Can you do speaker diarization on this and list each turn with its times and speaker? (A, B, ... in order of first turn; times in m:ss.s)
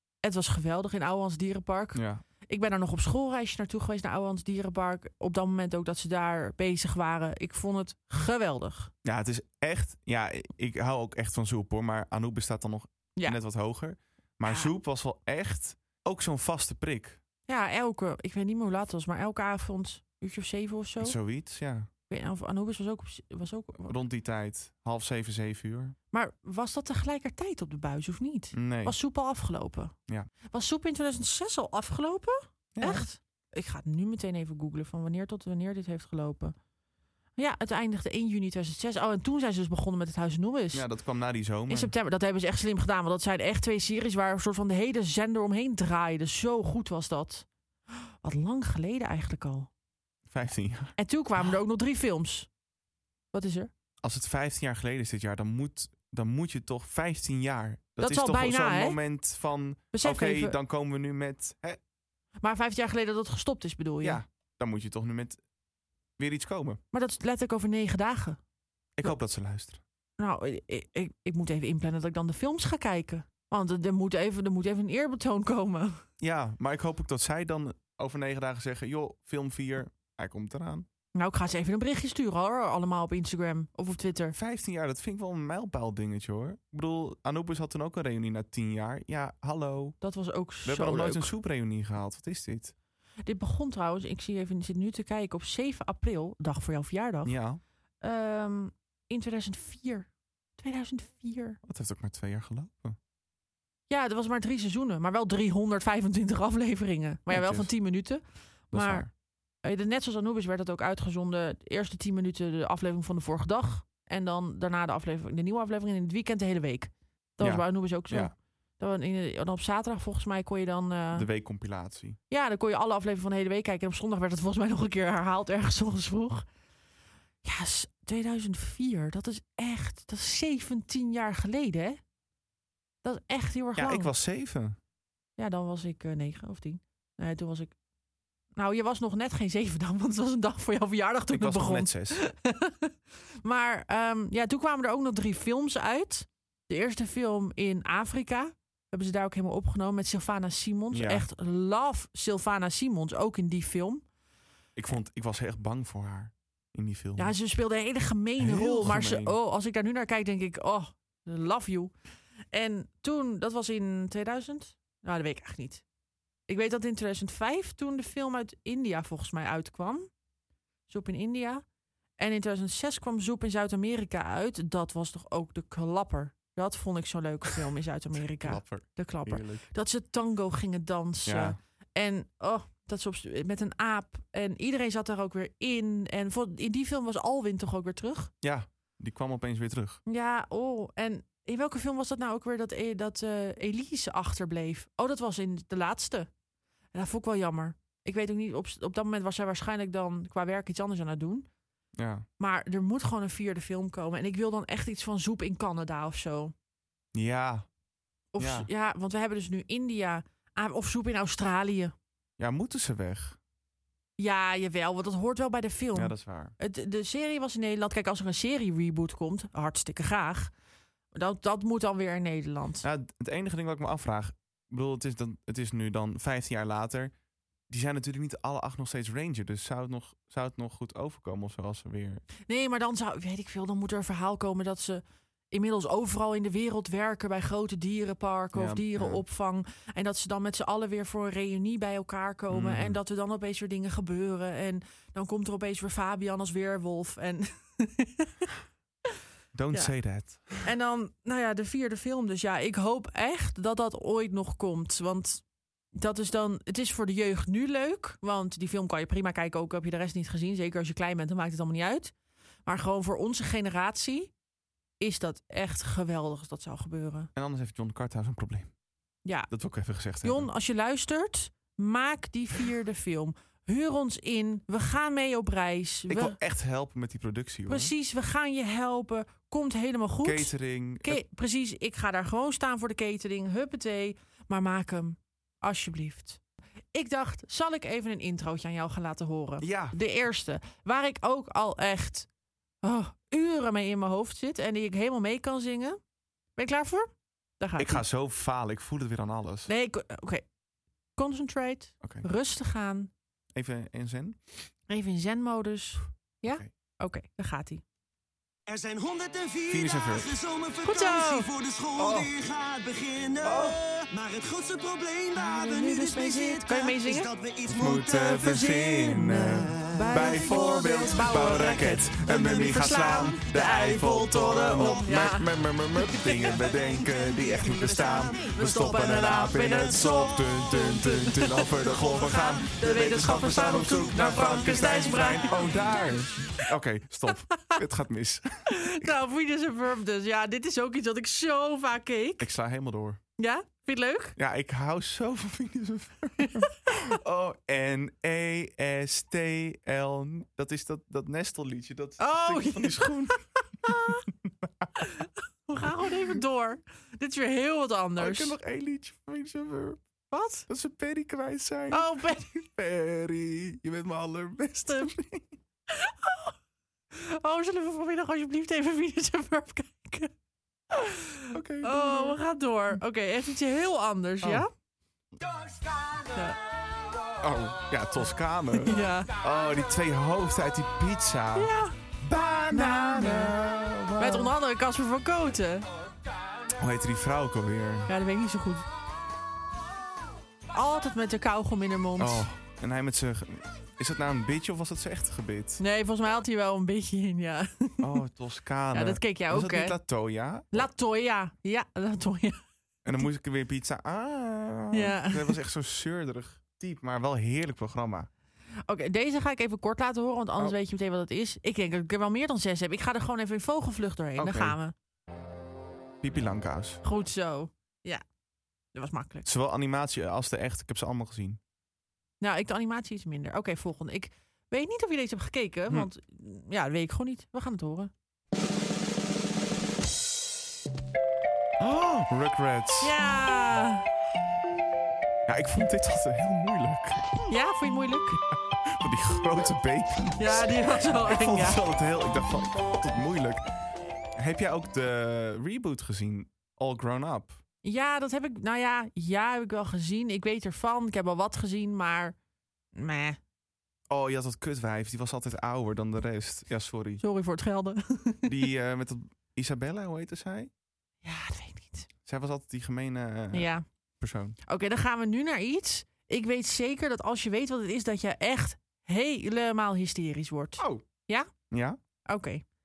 0:00.2-0:08.9 A
0:01.9-0:02.2 B
0:09.0-0:17.2 B
0:14.4-0:14.7 A
0:17.5-0:21.2 A
0:21.0-0:21.9 B
0:22.1-0:24.0 A
0:23.8-0:25.9 B
0:26.1-0:29.9 A
0:28.5-0:29.0 B
0:30.5-0:36.5 A
0:32.7-0:33.1 B
0:37.4-0:40.8 A
0:40.7-0:41.9 B
0:41.7-0:47.5 A
0:48.2-0:49.7 A
0:50.3-0:50.9 B
0:51.0-0:52.5 A
0:53.3-0:53.7 A
0:54.0-1:01.8 B
0:58.0-0:59.0 A
0:59.9-1:00.6 A
1:02.4-1:04.2 A
1:04.0-1:05.4 B
1:06.2-1:06.8 B
1:06.9-1:08.4 A
1:09.0-1:09.8 B
1:10.2-1:16.0 A
1:16.2-1:20.8 B
1:21.1-1:24.3 A
1:24.3-1:30.0 B
1:30.0-1:31.3 A
1:30.6-1:32.7 B
1:33.2-1:37.3 A
1:37.2-1:37.6 B
1:38.0-1:41.6 A
1:41.6-1:43.0 B
1:43.9-1:49.1 A
1:47.3-1:47.7 B
1:48.7-1:49.1 B
1:49.6-2:01.3 A
1:57.4-1:58.3 B
2:01.1-2:02.2 B
2:02.3-2:06.4 A
2:07.4-2:12.0 A
2:13.0-2:14.1 A
2:13.8-2:14.8 B
2:15.4-2:17.7 A
2:18.5-2:34.0 A
2:21.3-2:22.2 B
2:30.9-2:31.2 B
2:34.8-2:37.3 B
2:37.2-2:41.9 A
2:38.4-2:39.4 B
2:42.5-2:45.8 A
2:46.5-2:50.1 A
2:50.9-2:51.6 A
2:52.2-3:08.3 A
2:58.4-2:59.6 B
3:01.2-3:01.6 B
3:08.4-3:10.0 B
3:10.0-3:16.3 A
3:16.9-3:21.5 A
3:22.0-3:22.2 B
3:22.4-3:26.5 A
3:27.1-3:27.6 B
3:28.3-3:31.9 A
3:28.4-3:28.7 B
3:32.4-3:33.4 B
3:34.2-3:40.5 A
3:35.9-3:36.5 B
3:41.1-3:42.8 A
3:42.8-3:47.1 B
3:47.7-3:52.2 B
3:52.5-4:08.3 A
3:58.5-3:59.2 B
4:02.5-4:03.0 B
4:09.5-4:10.6 B
4:10.6-4:15.4 A
4:15.9-4:22.1 A
4:22.6-4:24.3 A
4:25.0-4:27.3 A
4:27.3-4:28.7 B
4:29.2-4:29.5 A
4:29.5-4:30.5 B
4:30.2-4:36.4 A
4:36.1-4:37.9 B
4:37.7-4:46.4 A
4:40.2-4:41.2 B
4:46.9-4:52.3 A
4:49.6-4:49.9 B
4:52.8-4:56.0 A
4:56.6-4:58.0 A
4:57.8-4:59.7 B
4:59.7-5:00.4 A
5:01.2-5:03.1 A
5:03.5-5:04.4 B
5:04.9-5:07.8 A
5:08.7-5:18.4 C
5:09.7-5:10.3 B
5:10.8-5:11.5 A
5:12.0-5:12.3 B
5:13.4-5:13.8 B
5:15.4-5:17.3 A
5:17.7-5:39.1 B
5:18.2-5:25.5 A
5:20.2-5:21.0 C
5:24.8-5:25.3 C
5:26.1-5:30.4 C
5:26.3-5:36.0 A
5:31.8-5:35.6 C
5:37.3-5:37.8 A
5:38.7-5:42.5 A
5:42.4-5:43.2 B
5:43.4-5:44.4 A
5:44.4-5:54.9 B
5:52.2-5:54.2 A
5:55.0-5:58.6 A
5:58.2-6:00.0 B
6:00.3-6:00.6 A
6:00.7-6:05.5 B
6:01.9-6:02.5 A
6:04.8-6:05.1 A
6:05.9-6:06.5 A
6:07.1-6:10.3 A
6:10.9-6:14.7 A
6:11.5-6:12.4 B
6:14.4-6:14.7 B
6:16.3-6:16.6 A
6:17.4-6:21.7 B
6:18.7-6:19.3 A
6:21.5-6:22.0 A
6:22.2-6:24.5 B
6:22.7-6:23.6 A
6:24.2-6:25.9 A
6:26.8-6:28.1 B
6:28.1-6:28.8 A
6:30.7-6:32.4 A
6:32.2-6:35.8 B
6:35.8-6:38.2 A
6:38.0-6:40.9 B
6:38.9-6:40.0 A
6:40.7-6:42.6 A
6:43.0-6:48.3 B
6:44.9-6:45.6 A
6:48.9-6:54.9 A
6:54.4-6:54.8 B
6:56.2-6:57.0 B
6:57.0-6:58.2 A
6:58.9-6:59.4 A
6:59.4-7:01.6 B
7:02.4-7:08.1 A
7:11.8-7:13.1 B
7:13.0-7:14.1 A
7:15.5-7:17.4 B
7:17.5-7:18.4 A
7:18.8-7:23.6 B
7:20.4-7:21.8 A
7:24.4-7:27.6 B
7:27.8-7:32.4 A
7:32.9-7:33.4 A
7:34.1-7:37.2 B
7:37.2-7:38.6 A
7:38.4-7:40.7 B
7:41.2-7:42.1 A
7:42.2-7:44.6 B
7:43.5-7:43.8 A
7:44.6-7:51.5 A
7:50.8-7:51.0 B
7:51.7-7:52.0 B
7:52.2-7:52.6 A